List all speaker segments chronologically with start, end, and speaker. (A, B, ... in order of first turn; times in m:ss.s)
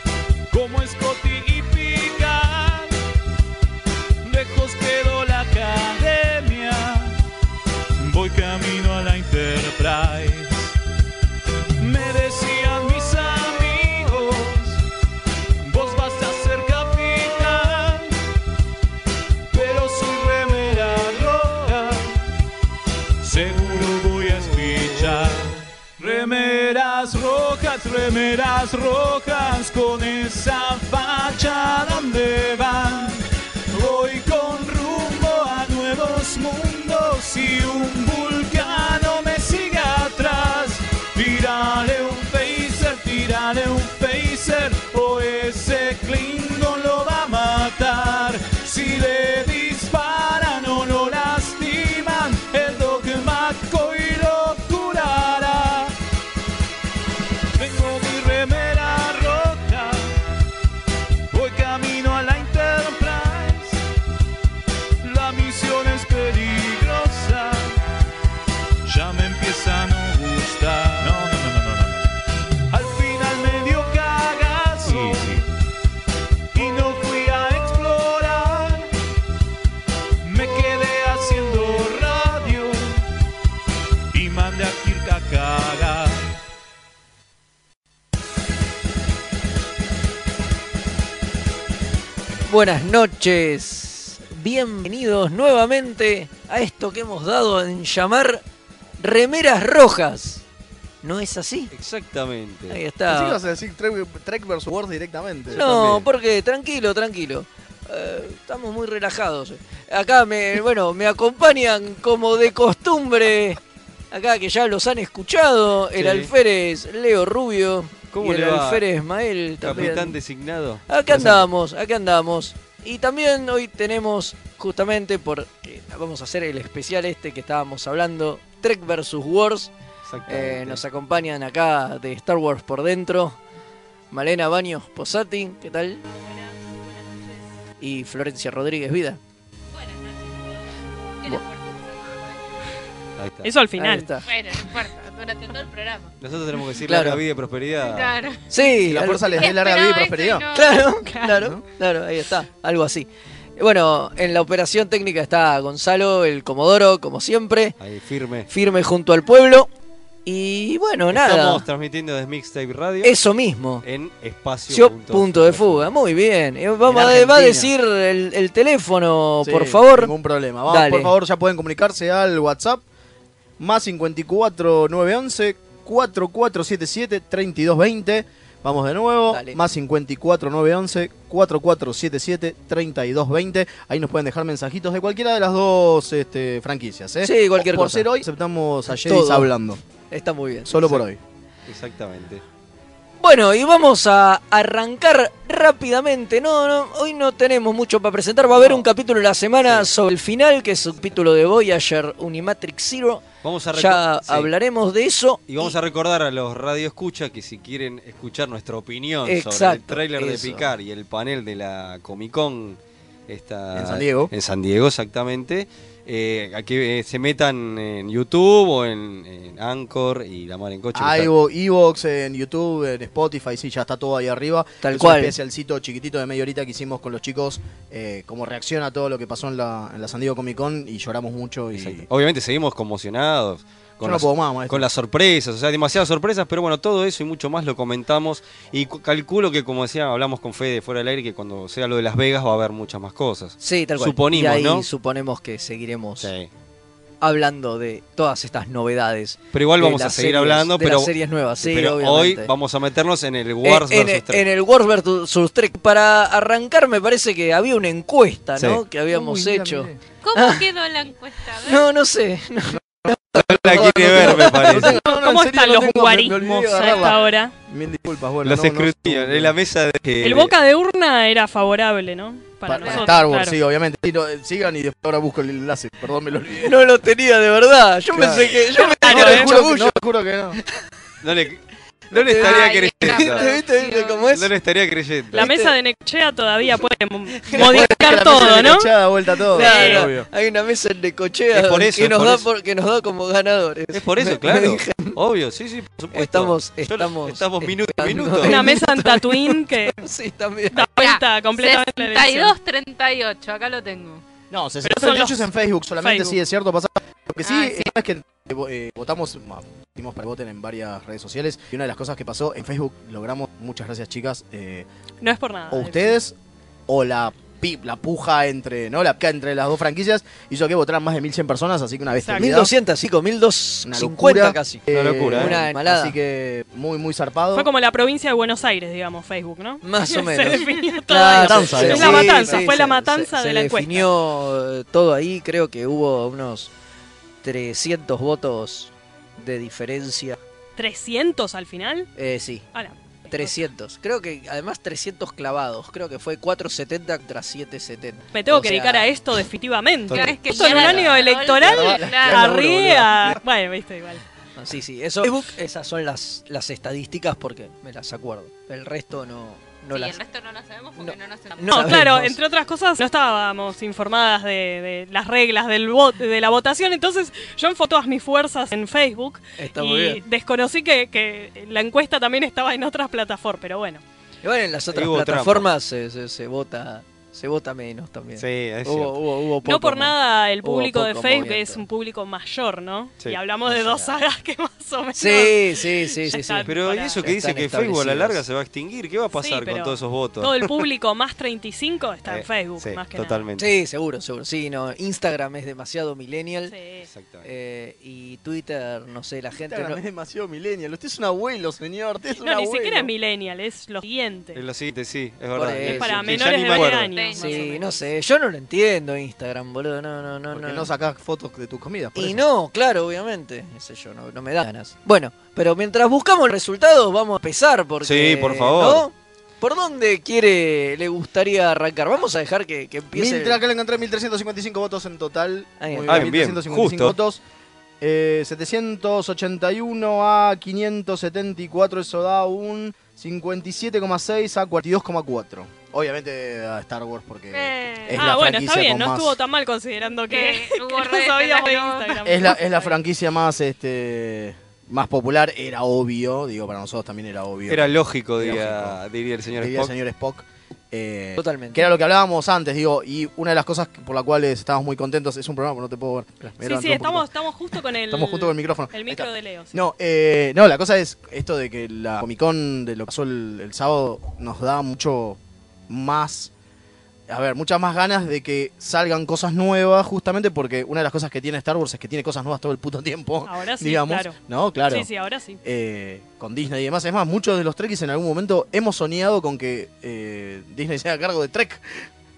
0:00.5-0:03.0 A
0:04.2-0:07.2 A
0:08.0-0:10.8 A
0:11.8-0:14.8 A
0:15.6-0:18.1 A
0:19.5-0:22.2 A
0:23.2-0:55.9 A
0:57.6-1:00.1 A
1:01.3-1:03.8 A
1:05.0-1:07.8 A
1:08.8-1:12.0 A
1:12.7-1:15.5 A
1:16.5-1:18.9 A
1:20.2-1:23.0 A
1:24.1-1:26.3 A
1:32.5-1:38.4 B
1:39.0-1:40.4 B
1:41.0-1:41.7 B
1:41.7-1:42.8 C
1:42.7-1:43.4 B
1:43.1-1:45.6 D
1:45.5-1:53.6 B
1:45.6-1:46.0 C
1:54.1-2:00.2 B
1:55.9-1:56.3 C
1:58.1-1:58.8 C
1:59.6-2:01.5 C
2:00.9-2:09.7 B
2:10.0-2:10.8 C
2:10.3-2:13.4 B
2:14.1-2:16.0 B
2:17.8-2:19.2 B
2:19.7-2:20.6 E
2:21.2-2:22.4 E
2:23.2-2:23.5 C
2:23.4-2:24.1 F
2:23.8-2:24.3 B
2:24.2-2:26.1 E
2:26.2-2:28.2 C
2:26.8-2:27.2 B
2:27.8-2:28.5 E
2:28.5-2:29.4 B
2:28.8-2:30.5 D
2:29.3-2:31.4 E
2:30.5-2:37.8 B
2:31.3-2:31.6 D
2:37.8-2:38.5 C
2:38.5-2:39.7 B
2:40.2-2:41.6 B
2:41.1-2:43.1 C
2:43.0-2:43.8 B
2:43.8-2:45.9 C
2:44.7-2:50.1 B
2:46.9-2:47.7 D
2:49.4-2:52.8 D
2:50.7-2:51.1 B
2:53.6-3:09.8 D
2:59.3-2:59.6 B
3:07.2-3:08.1 B
3:08.9-3:09.5 B
3:10.1-3:11.0 B
3:10.7-3:11.2 D
3:11.7-3:12.4 C
3:13.2-3:25.7 B
3:18.6-3:18.8 C
3:19.6-3:19.9 C
3:23.4-3:24.5 C
3:25.5-3:41.3 C
3:29.2-3:30.7 B
3:33.7-3:34.3 D
3:40.9-3:52.0 D
3:44.8-3:45.3 B
3:51.7-4:04.9 C
3:54.0-3:54.8 D
4:03.6-4:06.3 B
4:06.2-4:06.5 C
4:07.2-4:12.5 B
4:09.5-4:14.4 C
4:13.6-4:20.6 B
4:18.6-4:18.8 C
4:19.1-4:20.0 D
4:20.2-4:21.9 E
4:21.6-4:25.0 B
4:23.4-4:25.0 C
4:23.6-4:29.6 D
4:25.0-4:27.5 F
4:28.4-4:30.5 C
4:30.2-4:33.6 F
4:32.6-4:36.7 D
4:32.8-4:33.1 E
4:36.6-4:40.0 B
4:38.1-4:40.6 D
4:39.0-4:39.5 F
4:41.2-4:43.5 C
4:42.1-4:44.5 B
4:42.3-4:44.2 E
4:44.3-4:45.4 C
4:45.3-4:45.7 B
4:45.3-4:48.9 F
4:47.4-4:48.7 B
4:47.5-4:50.3 D
4:49.5-4:55.2 B
4:49.5-4:50.1 F
4:51.5-4:52.5 C
4:53.9-4:58.6 C
4:56.1-5:00.8 B
4:58.4-5:00.0 F
5:00.7-5:02.5 F
5:00.8-5:04.2 E
5:04.5-5:14.9 D
5:04.8-5:05.4 F
5:06.0-5:06.4 F
5:07.4-5:07.9 E
5:15.2-5:16.2 F
5:15.7-5:16.3 D
5:16.9-5:22.7 D
5:22.2-5:22.5 F
5:22.4-5:26.2 B
5:23.8-5:27.7 D
5:24.9-5:25.6 C
5:27.5-5:34.1 F
5:29.8-5:36.7 B
5:31.3-5:32.6 D
5:37.4-5:40.4 B
5:40.8-5:42.1 F
5:42.2-5:42.6 B
5:42.7-5:43.6 F
5:43.3-5:49.1 B
5:48.3-5:54.2 F
5:50.1-5:50.3 C
5:50.1-5:52.5 E
5:50.6-5:51.1 B
5:51.6-5:52.6 D
5:52.3-5:53.1 B
5:54.6-6:00.2 B
5:59.9-6:01.9 E
6:01.0-6:02.4 B
6:01.7-6:14.0 F
6:09.6-6:10.2 B
6:14.4-6:21.8 B
6:14.9-6:15.7 C
6:18.4-6:19.2 C
6:19.6-6:27.2 F
6:25.1-6:28.4 B
6:26.7-6:30.8 C
6:29.3-6:33.4 F
6:32.2-6:33.7 C
6:33.6-6:36.7 B
6:36.7-6:37.1 F
6:37.0-6:37.5 C
6:37.4-6:40.0 B
6:39.7-6:43.1 D
6:42.4-6:44.6 F
6:44.5-6:47.2 C
6:45.5-6:46.5 B
6:45.8-6:47.8 F
6:46.6-6:48.1 E
6:47.3-6:50.9 B
6:50.5-6:52.4 D
6:52.2-7:03.6 B
6:58.0-6:59.1 C
7:03.1-7:07.4 D
7:05.8-7:06.3 B
7:06.1-7:07.1 C
7:08.0-7:19.3 D
7:17.6-7:18.3 E
7:17.8-7:22.9 F
7:20.3-7:22.5 E
7:22.2-7:29.0 D
7:27.7-7:29.9 C
7:29.5-7:37.3 D
7:31.4-7:31.9 B
7:36.6-7:39.7 F
7:38.1-7:46.5 D
7:47.3-7:55.1 D
7:53.4-7:54.4 F
7:54.9-7:55.6 F
7:55.6-8:02.0 D